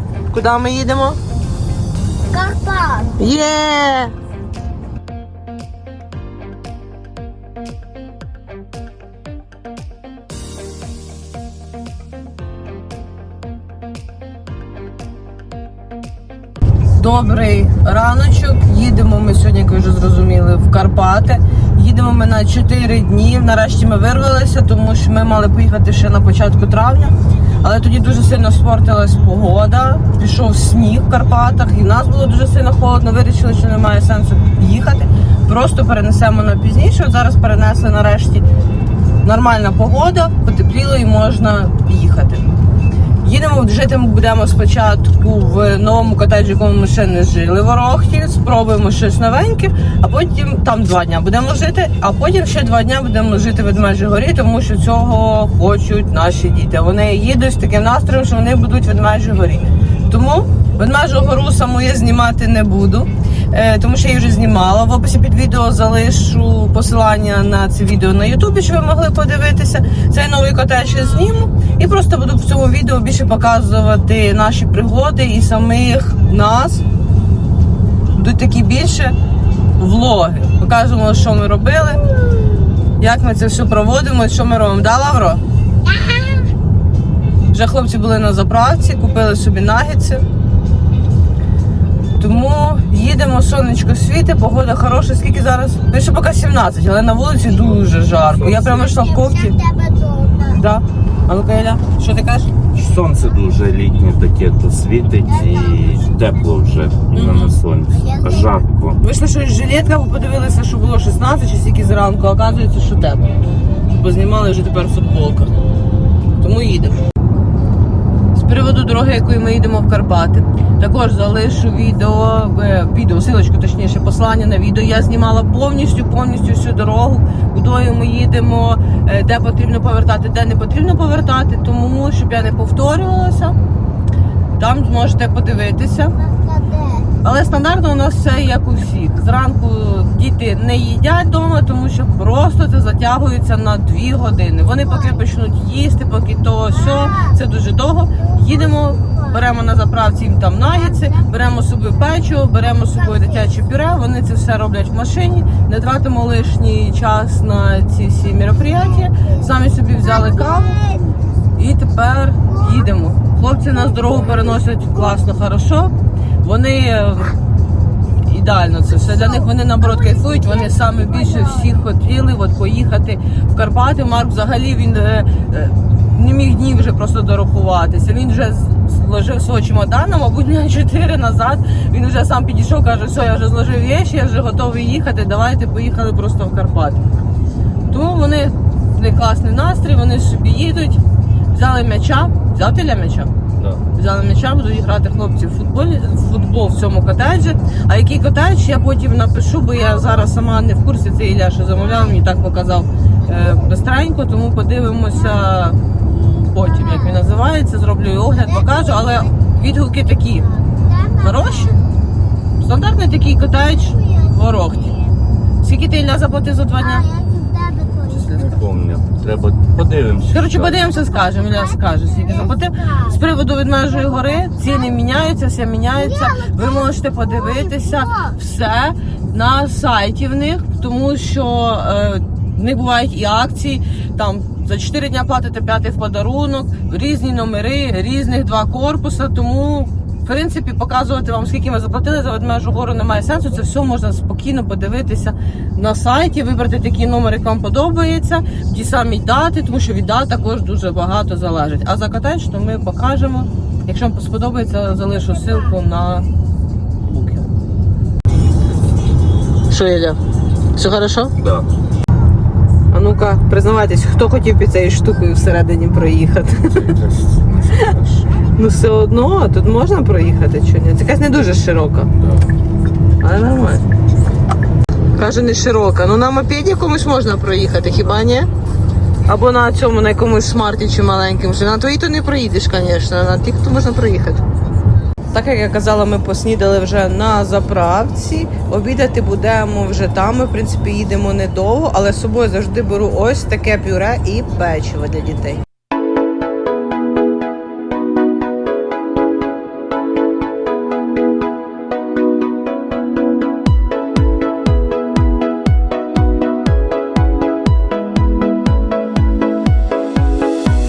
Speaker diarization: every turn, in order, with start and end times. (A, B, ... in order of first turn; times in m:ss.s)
0:00.3-0:01.2 A
0:02.3-0:03.2 B
0:03.2-0:04.1 A
0:16.9-0:38.4 A
0:39.2-0:42.5 A
0:43.2-1:16.8 A
1:18.2-1:19.2 A
1:19.8-1:22.0 A
1:23.0-1:25.4 A
1:25.9-1:26.4 B
1:27.5-1:30.2 A
1:32.2-1:39.6 A
1:37.9-1:38.8 C
1:38.7-1:40.6 B
1:40.6-1:42.5 A
1:42.7-1:49.0 C
1:45.3-1:46.1 B
1:47.1-1:47.6 A
1:47.9-1:48.6 B
1:49.0-1:53.3 A
1:53.9-1:55.5 A
1:56.4-1:57.0 A
1:58.4-2:13.6 A
2:14.6-2:16.2 A
2:16.2-2:17.2 B
2:17.2-2:40.7 A
2:24.9-2:25.2 B
2:26.7-2:27.4 B
2:28.2-2:29.4 B
2:30.8-2:31.2 B
2:32.9-2:33.5 B
2:39.0-2:39.4 B
2:40.0-2:41.3 B
2:41.6-2:45.9 A
2:42.5-2:42.9 B
2:46.4-2:47.4 A
2:48.2-3:07.0 A
2:49.1-2:51.8 B
3:07.9-3:11.0 A
3:11.5-3:13.3 A
3:13.6-3:13.8 C
3:13.9-3:25.8 A
3:25.3-3:27.2 B
3:26.5-3:30.5 A
3:28.5-3:29.3 B
3:30.6-3:31.8 B
3:31.2-3:31.8 A
3:32.6-3:35.0 A
3:33.5-3:35.0 B
3:35.6-3:37.1 A
3:36.8-3:38.4 B
3:38.1-3:38.5 A
3:38.4-3:40.9 C
3:40.3-4:16.3 A
3:41.0-3:43.2 B
3:43.9-3:44.9 B
3:46.0-3:48.4 B
4:17.1-4:17.5 A
4:19.7-4:20.2 A
4:20.8-4:21.3 A
4:21.4-4:21.7 C
4:22.9-4:26.8 A
4:26.7-4:28.3 C
4:28.6-4:32.1 A
4:32.2-4:32.5 C
4:33.2-4:33.8 A
4:35.2-4:38.5 A
4:39.3-4:44.4 A
4:45.3-4:55.6 A